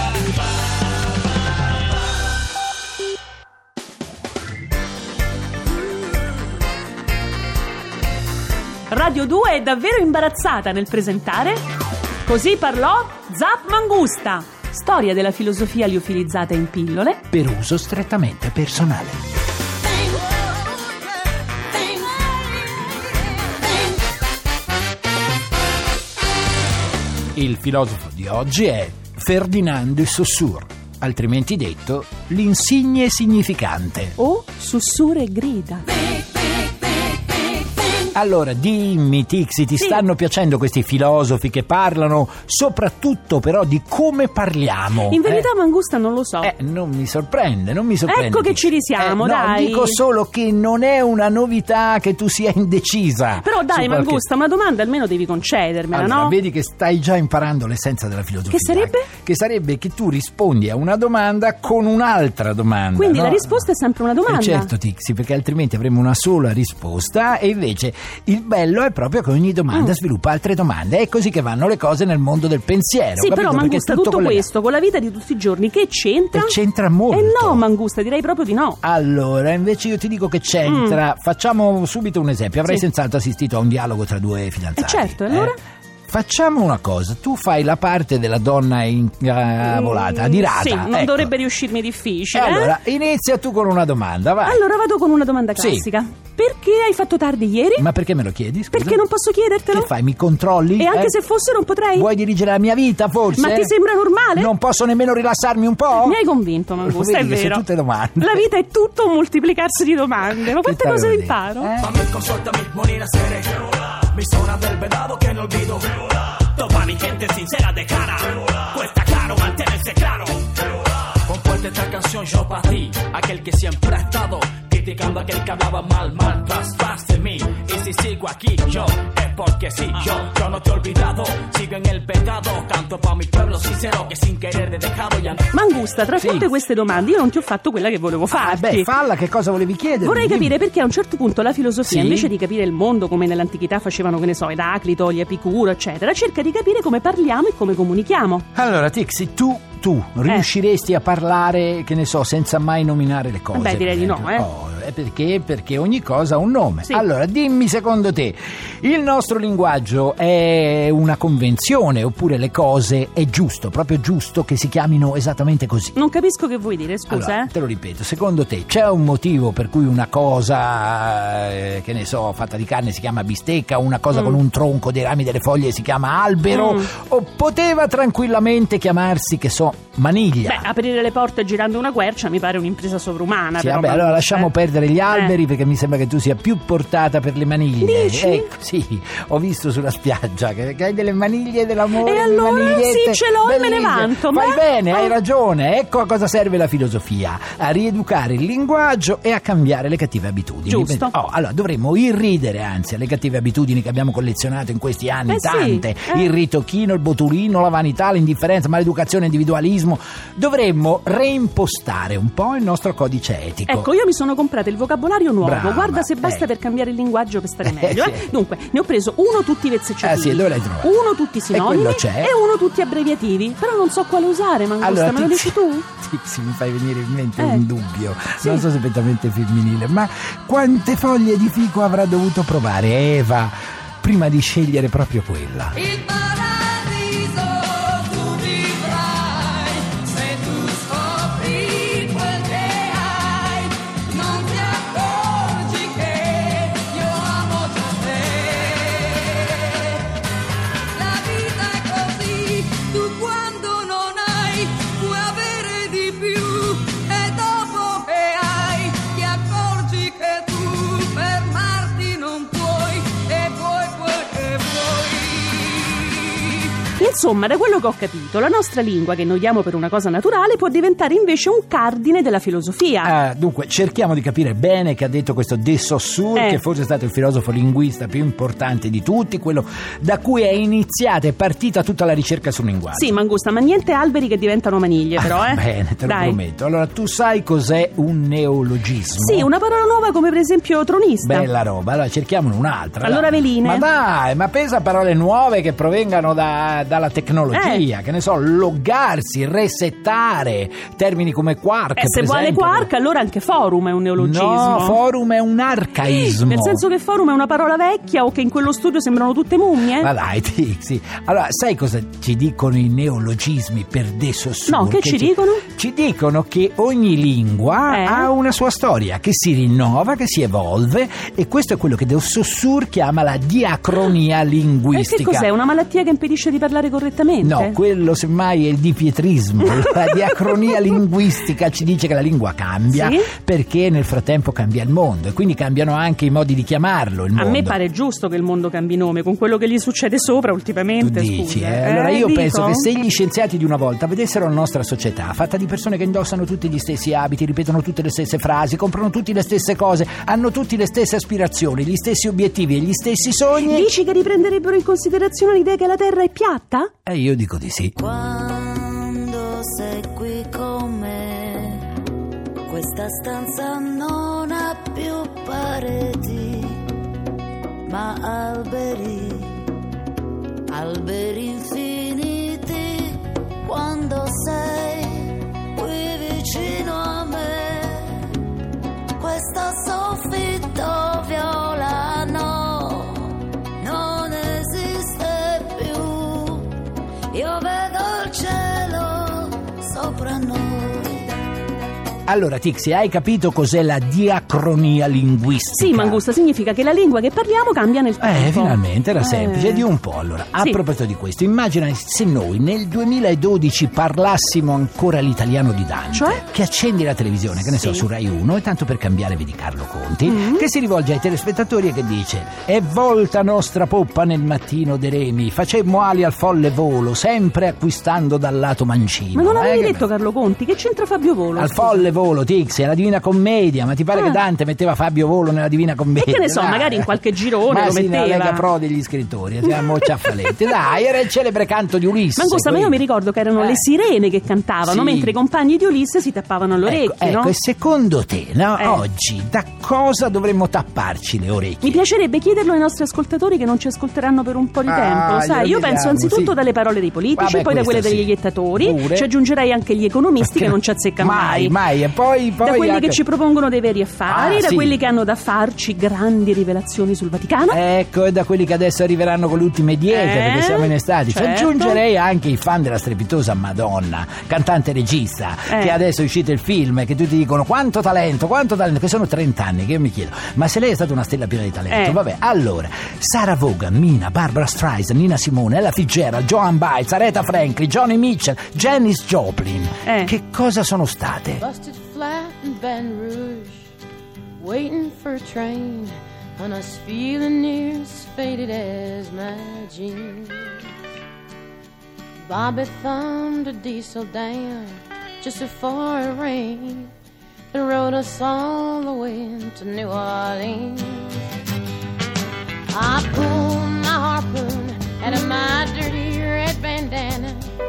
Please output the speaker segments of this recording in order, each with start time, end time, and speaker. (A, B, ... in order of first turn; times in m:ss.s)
0:08.9-0:11.6 A
0:12.2-0:17.2 A
0:17.3-0:19.2 B
0:27.3-0:34.2 B
0:34.2-0:35.9 A
0:38.1-0:45.5 B
0:39.8-0:40.0 A
0:45.1-0:46.5 A
0:46.4-0:54.2 B
0:48.1-0:50.0 A
0:53.4-0:56.4 A
0:55.9-1:03.7 B
0:58.5-0:59.1 A
1:03.0-1:04.7 A
1:04.2-1:14.4 B
1:13.2-1:16.6 A
1:16.3-1:17.6 B
1:17.1-1:18.8 A
1:18.8-1:25.6 B
1:20.6-1:21.0 A
1:24.8-1:25.6 A
1:26.1-1:31.3 B
1:29.6-1:32.7 A
1:32.3-1:34.6 B
1:34.4-1:37.8 A
1:35.6-1:35.9 B
1:37.8-1:39.1 B
1:38.7-1:39.9 A
1:39.7-1:41.2 B
1:40.8-1:42.1 A
1:41.9-1:43.7 B
1:43.4-1:44.5 A
1:44.3-1:46.2 B
1:46.0-1:47.6 A
1:46.8-1:48.4 B
1:48.2-1:51.7 A
1:50.4-1:52.0 B
1:51.8-2:00.5 C
2:01.2-2:15.5 C
2:15.5-2:18.9 A
2:16.2-2:16.5 B
2:18.3-2:20.6 B
2:20.0-2:28.5 A
2:21.8-2:22.3 B
2:28.5-2:46.0 B
2:33.5-2:34.5 A
2:45.9-2:47.5 A
2:47.1-3:00.7 B
2:54.1-2:54.4 A
2:56.5-2:56.9 A
3:00.4-3:04.5 A
3:03.6-3:33.9 B
3:05.1-3:05.4 A
3:07.8-3:08.5 A
3:11.9-3:15.1 A
3:20.6-3:21.1 A
3:25.3-3:26.3 A
3:33.7-3:45.8 A
3:35.4-3:36.5 B
3:37.6-3:38.3 B
3:40.0-3:41.0 B
3:41.5-3:42.3 B
3:44.8-3:55.8 B
3:47.4-3:47.6 A
3:48.4-3:48.6 A
3:55.8-4:10.1 D
4:10.9-4:26.5 D
4:27.0-4:33.1 A
4:33.0-4:43.1 B
4:36.3-4:36.6 A
4:42.9-4:46.4 A
4:45.2-4:49.5 B
4:49.2-4:51.5 A
4:51.2-5:02.9 B
4:53.0-4:53.8 A
4:57.5-4:57.8 A
5:02.0-5:05.0 A
5:04.2-5:06.8 B
5:06.0-5:10.1 A
5:09.9-5:25.5 B
5:14.7-5:15.6 A
5:17.9-5:18.3 A
5:24.9-5:27.8 A
5:27.4-5:37.8 B
5:29.9-5:30.2 A
5:32.9-5:33.3 A
5:37.4-5:42.9 A
5:41.0-5:53.9 B
5:53.6-5:56.9 A
5:57.0-5:57.9 B
5:58.0-6:01.9 E
6:02.7-6:06.8 E
6:07.8-6:09.7 E
6:10.7-6:18.4 E
6:19.2-6:26.7 E
6:27.3-6:31.3 E
6:32.3-6:36.2 B
6:35.8-6:39.8 A
6:38.2-7:00.1 B
6:46.1-6:46.4 A
6:47.6-6:48.1 A
6:50.2-6:50.6 A
6:59.3-7:02.1 A
7:01.6-7:13.0 B
7:04.1-7:04.4 A
7:06.2-7:08.6 A
7:10.0-7:10.5 A
7:12.4-7:17.5 A
7:13.6-7:13.8 B
7:14.8-7:15.4 B
7:16.8-7:22.0 B
7:18.8-7:19.0 A
7:21.8-7:31.8 A
7:24.8-7:26.6 B
7:27.4-7:29.3 B
7:30.4-7:33.2 B
7:32.6-7:37.8 A
7:34.3-7:35.0 B
7:37.7-8:01.6 B
7:40.1-7:42.0 A
7:45.7-7:46.0 A
7:51.9-7:52.2 A
8:00.0-8:00.3 A
8:01.6-8:03.9 F
8:04.6-8:10.9 F
8:12.5-8:17.1 F
8:17.7-8:21.4 F
8:22.9-8:27.7 F